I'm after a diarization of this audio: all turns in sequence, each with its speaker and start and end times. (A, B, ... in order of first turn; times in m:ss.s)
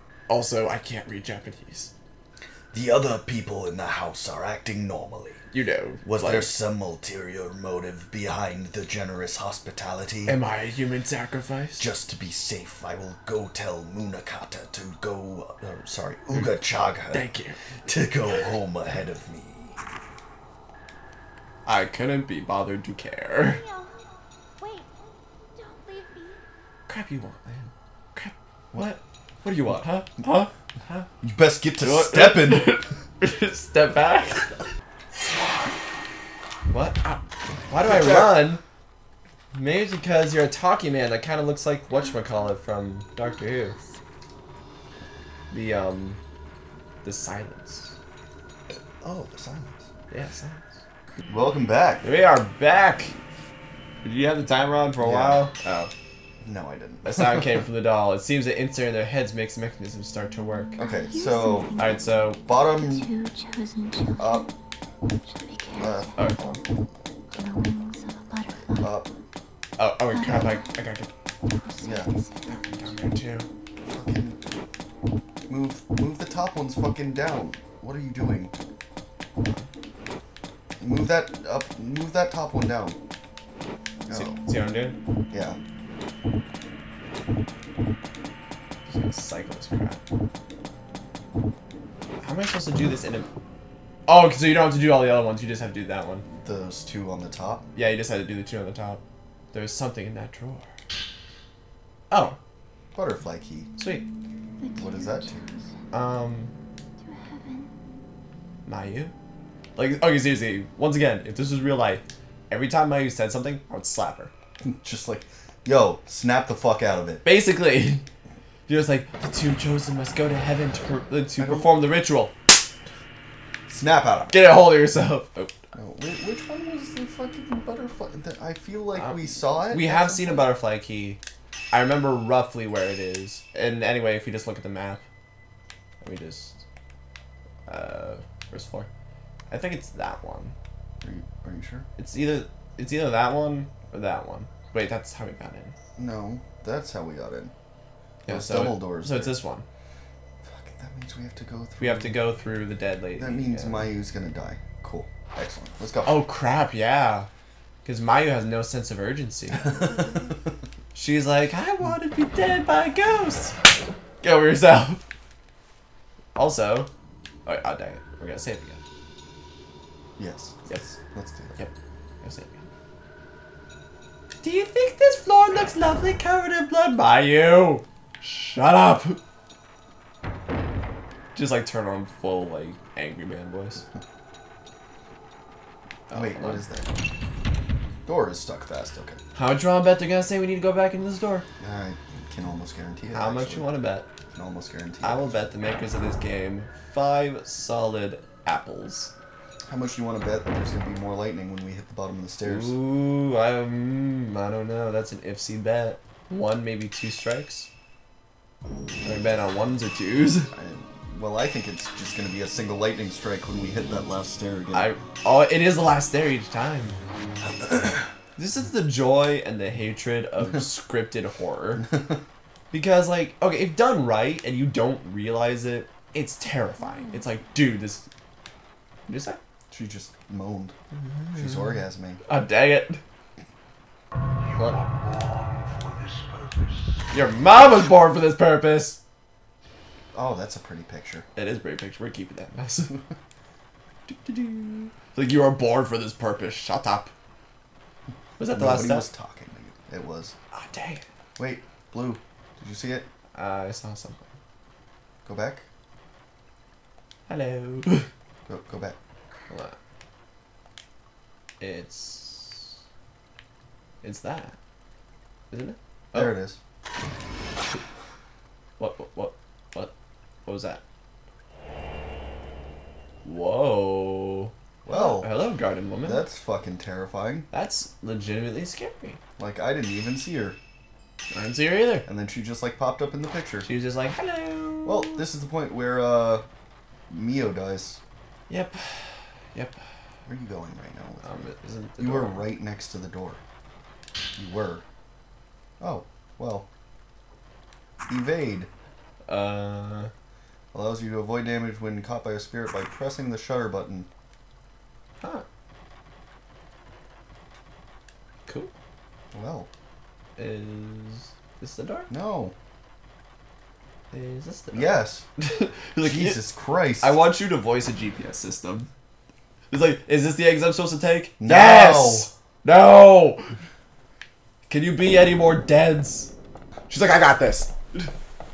0:00.3-0:01.9 A
0:02.7-0:05.4 B
0:05.5-0:06.5 A
0:06.0-0:10.3 B
0:10.2-0:11.9 A
0:11.8-0:17.3 B
0:17.1-0:17.6 A
0:17.8-0:19.8 B
0:21.6-0:23.6 A
0:23.4-0:26.4 C
0:26.9-0:31.1 A
0:31.2-0:32.7 B
0:31.8-0:34.5 A
0:36.7-0:38.6 A
0:37.8-0:38.5 B
0:39.5-0:43.8 A
0:45.5-0:46.2 A
0:47.0-0:48.0 A
0:49.0-0:49.9 B
0:50.1-0:50.8 A
0:51.3-0:52.0 B
0:52.0-0:53.1 A
0:54.0-0:55.9 A
0:55.0-0:55.5 B
0:56.4-0:57.6 B
0:57.0-1:00.8 A
1:00.8-1:04.5 C
1:00.8-1:01.7 B
1:01.8-1:02.4 A
1:02.4-1:03.1 B
1:04.2-1:04.5 B
1:05.1-1:06.2 C
1:05.8-1:06.8 B
1:07.3-1:09.0 C
1:08.8-1:09.2 B
1:09.8-1:11.1 A
1:10.1-1:10.8 C
1:11.4-1:12.9 C
1:11.8-1:12.1 B
1:12.5-1:13.5 A
1:13.9-1:14.4 B
1:15.5-1:18.5 B
1:19.4-1:19.7 A
1:20.8-1:23.0 B
1:24.0-1:24.4 B
1:24.1-1:25.0 A
1:25.3-1:25.6 B
1:28.9-1:30.0 A
1:32.2-1:33.3 A
1:34.1-1:36.2 A
1:36.4-1:37.6 B
1:37.7-1:39.0 A
1:39.5-1:40.7 A
1:42.1-1:42.4 A
1:42.9-1:43.7 B
1:43.8-1:44.0 A
1:44.6-1:45.8 C
1:44.8-1:45.5 B
1:45.9-1:46.5 A
1:47.0-1:47.7 C
1:48.6-1:49.1 A
1:49.8-1:54.3 A
1:54.6-1:57.2 B
1:57.2-1:58.0 A
1:58.7-2:02.3 A
2:01.4-2:01.7 B
2:03.7-2:04.5 B
2:04.3-2:05.6 A
2:05.7-2:10.5 B
2:08.9-2:11.2 A
2:11.7-2:15.0 A
2:16.0-2:16.6 A
2:17.7-2:18.9 A
2:19.5-2:20.5 A
2:21.0-2:21.9 B
2:22.0-2:25.7 A
2:26.0-2:27.5 B
2:28.3-2:29.4 B
2:28.3-2:29.6 A
2:30.4-2:32.2 B
2:31.8-2:33.9 A
2:33.2-2:36.2 B
2:36.0-2:37.3 A
2:37.8-2:40.0 A
2:39.7-2:40.0 B
2:40.9-2:43.6 A
2:44.2-2:45.0 A
2:46.3-2:46.9 A
2:47.4-2:48.8 A
2:50.2-2:51.6 B
2:51.6-2:52.7 A
2:54.4-2:59.2 A
3:01.3-3:03.8 A
3:06.1-3:06.6 A
3:06.1-3:06.9 B
3:08.0-3:09.2 B
3:09.3-3:11.5 A
3:11.6-3:13.7 B
3:13.1-3:14.1 A
3:14.3-3:15.4 B
3:15.0-3:19.1 A
3:19.7-3:22.8 B
3:22.4-3:27.7 A
3:29.0-3:30.5 A
3:30.5-3:34.9 B
3:34.7-3:37.0 A
3:37.4-3:38.0 B
3:38.4-3:41.9 A
3:42.7-3:48.0 A
3:49.1-3:49.4 A
3:49.7-3:50.7 B
3:50.9-3:53.0 A
3:51.4-3:52.2 B
3:57.1-3:59.0 A
4:00.1-4:01.2 B
4:01.4-4:03.0 A
4:04.1-4:07.1 A
4:08.4-4:09.1 A
4:08.5-4:10.4 B
4:10.5-4:11.0 A
4:11.4-4:13.1 B
4:13.3-4:14.3 A
4:15.2-4:15.6 B
4:17.3-4:18.1 A
4:18.5-4:19.0 B
4:19.5-4:19.8 A
4:21.6-4:22.8 A
4:24.0-4:24.6 A
4:25.5-4:26.4 A
4:26.1-4:26.6 B
4:28.8-4:29.9 A
4:30.4-4:30.8 A
4:33.2-4:36.2 A
4:34.8-4:35.3 B
4:36.0-4:37.5 B
4:37.5-4:39.2 A
4:39.4-4:40.6 B
4:41.3-4:42.1 A
4:42.0-4:43.7 B
4:43.6-4:45.2 A
4:44.8-4:46.4 B
4:47.1-4:48.0 B
4:48.5-4:49.8 A
4:50.2-4:53.4 B
4:51.2-4:52.5 A
4:54.4-4:54.8 B
4:55.8-4:56.7 B
4:58.1-4:58.7 B
4:59.3-5:00.1 A
5:00.7-5:04.1 B
5:08.5-5:08.7 A
5:09.3-5:09.7 B
5:10.4-5:12.1 A
5:12.1-5:12.5 B
5:14.1-5:16.4 A
5:14.7-5:15.2 B
5:16.0-5:17.2 B
5:17.0-5:18.9 A
5:19.7-5:23.5 A
5:21.4-5:22.3 B
5:24.7-5:26.3 A
5:26.9-5:28.1 A